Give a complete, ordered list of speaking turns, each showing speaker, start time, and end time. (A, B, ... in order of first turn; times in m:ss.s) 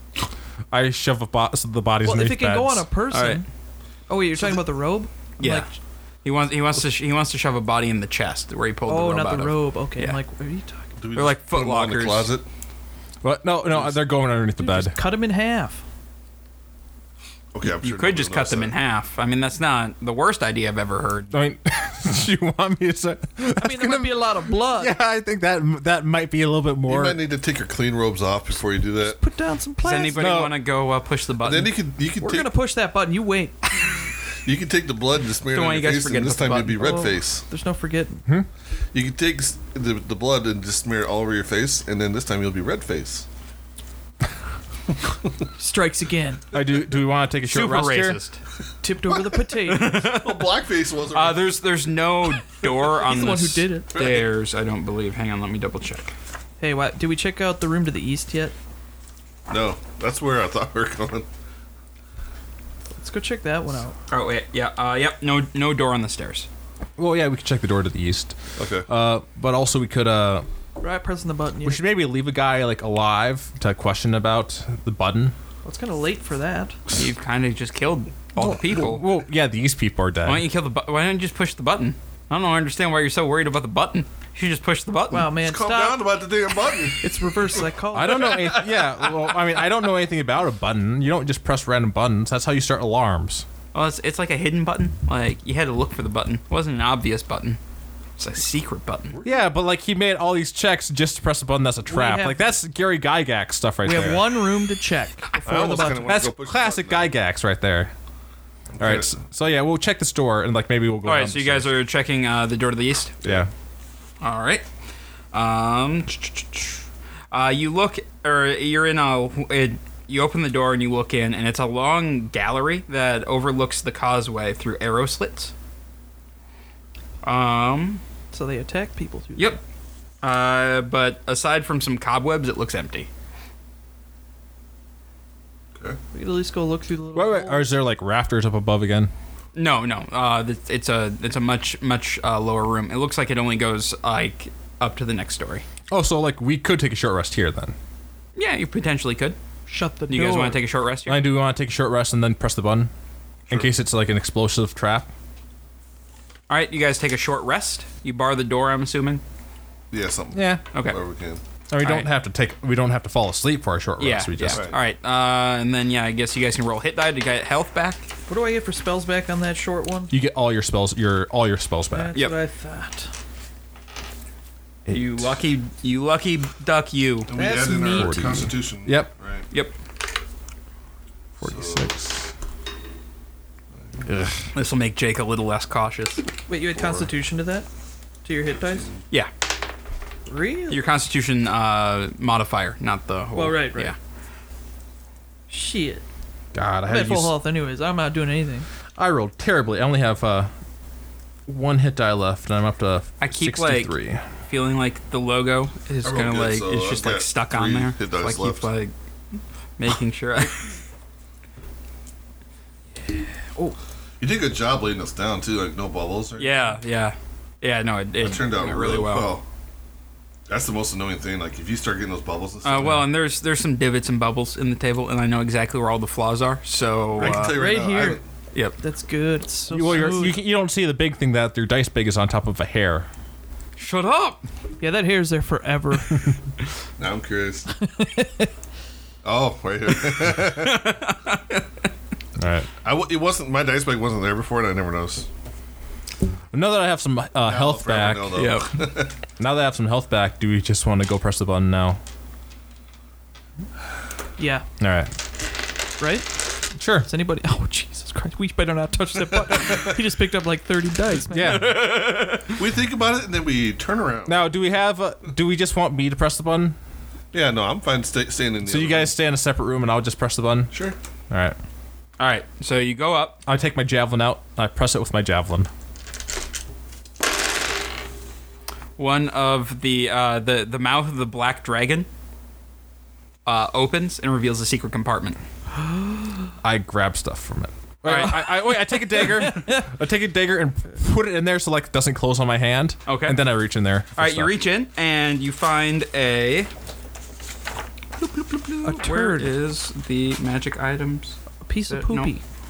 0:00.7-0:02.9 A
0:02.0-0:03.5 B
0:03.1-0:03.4 C
0:04.1-0:05.7 B
0:05.4-0:05.7 C
0:06.2-0:10.2 C
0:08.9-0:10.9 B
0:11.0-0:12.5 D
0:11.2-0:12.3 C
0:13.2-0:15.0 A
0:14.6-0:15.8 B
0:17.5-0:18.7 D
0:17.7-0:21.3 C
0:21.3-0:27.2 A
0:23.5-0:25.0 B
0:26.9-0:29.2 D
0:29.0-0:30.3 B
0:29.8-0:31.7 C
0:30.2-0:30.6 A
0:31.4-0:32.5 D
0:32.2-0:33.9 B
0:34.4-0:37.5 D
0:35.5-0:37.0 C
0:36.8-0:38.2 B
0:38.9-0:43.3 D
0:45.6-0:46.5 B
0:46.5-0:48.2 A
0:47.5-0:48.4 C
0:48.8-0:50.0 B
0:49.1-0:51.6 D
0:49.6-0:50.5 C
0:51.1-0:56.1 C
0:52.9-0:54.0 B
0:53.9-0:54.3 D
0:56.6-0:58.6 B
0:59.5-1:01.3 D
1:03.0-1:04.0 B
1:04.1-1:06.5 C
1:07.0-1:10.5 A
1:08.6-1:08.9 D
1:10.8-1:11.9 B
1:11.6-1:15.4 A
1:15.6-1:16.8 B
1:17.0-1:19.0 C
1:18.4-1:20.5 A
1:20.2-1:25.3 C
1:25.1-1:26.1 B
1:25.4-1:27.6 D
1:27.0-1:28.6 B
1:27.9-1:33.4 A
1:28.3-1:29.0 C
1:33.7-1:37.6 C
1:38.2-1:39.2 C
1:39.1-1:39.5 D
1:39.2-1:44.5 A
1:41.9-1:42.5 B
1:43.8-1:46.2 B
1:45.4-1:47.1 D
1:46.0-1:47.9 A
1:48.7-1:49.2 D
1:48.8-1:51.7 A
1:51.0-1:53.2 C
1:53.2-1:53.5 A
1:54.2-1:54.6 C
1:55.3-2:05.5 C
2:07.2-2:08.0 C
2:08.3-2:09.6 B
2:10.2-2:13.1 C
2:16.1-2:17.7 B
2:17.2-2:19.1 A
2:19.6-2:25.6 C
2:25.9-2:27.8 A
2:28.4-2:29.4 C
2:29.7-2:30.6 B
2:30.1-2:31.3 C
2:31.1-2:32.9 A
2:33.5-2:35.1 A
2:36.5-2:39.2 C
2:39.9-2:41.4 D
2:40.3-2:40.6 A
2:41.7-2:44.7 A
2:41.8-2:42.1 C
2:44.0-2:48.1 C
2:44.5-2:44.8 D
2:48.3-2:50.1 B
2:50.1-2:52.1 A
2:51.9-2:53.1 B
2:54.9-2:55.4 A
2:54.9-2:57.3 C
2:57.3-2:59.5 D
2:57.3-2:58.5 B
2:57.9-2:59.1 A
3:01.4-3:02.3 A
3:01.4-3:01.9 D
3:03.8-3:04.1 D
3:04.1-3:04.5 A
3:04.5-3:06.2 C
3:06.5-3:07.7 B
3:06.8-3:07.1 D
3:08.2-3:08.9 B
3:10.3-3:10.8 B
3:10.7-3:14.0 C
3:13.3-3:13.9 B
3:15.5-3:16.0 B
3:16.5-3:17.4 A
3:16.9-3:18.7 B
3:19.0-3:20.5 A
3:21.5-3:24.2 A
3:23.2-3:28.9 C
3:26.0-3:28.7 D
3:29.8-3:30.7 C
3:34.2-3:36.7 D
3:36.4-3:39.4 C
3:38.2-3:39.4 D
3:40.5-3:43.0 D
3:42.6-3:47.6 C
3:47.1-3:48.2 D
3:47.2-3:48.2 B
3:48.8-3:50.4 B
3:49.7-3:53.1 A
3:53.8-3:54.4 C
3:54.8-3:56.3 B
3:57.0-3:57.7 D
3:57.8-3:58.5 B
3:59.2-4:01.0 D
3:59.9-4:01.6 C
4:02.4-4:02.7 A
4:02.8-4:05.3 D
4:06.5-4:08.5 A
4:07.5-4:09.2 D
4:08.4-4:08.8 C
4:09.4-4:12.0 A
4:14.4-4:14.7 B
4:14.8-4:15.1 A
4:16.0-4:16.3 B
4:16.8-4:17.1 A
4:17.0-4:21.7 B
4:21.3-4:21.8 A
4:21.4-4:22.6 C
4:22.5-4:24.5 D
4:24.3-4:26.8 A
4:27.3-4:29.1 D
4:28.6-4:30.7 A
4:30.7-4:31.0 D
4:31.3-4:31.6 A
4:32.2-4:33.4 C
4:33.5-4:35.7 A
4:39.0-4:42.1 C
4:43.5-4:45.4 C
4:46.6-4:54.5 A
4:48.0-4:48.4 C
4:48.4-4:49.8 B
4:53.1-4:53.4 C
4:54.2-4:56.7 C
4:58.2-5:02.3 C
4:58.8-4:59.5 B
5:01.6-5:02.4 B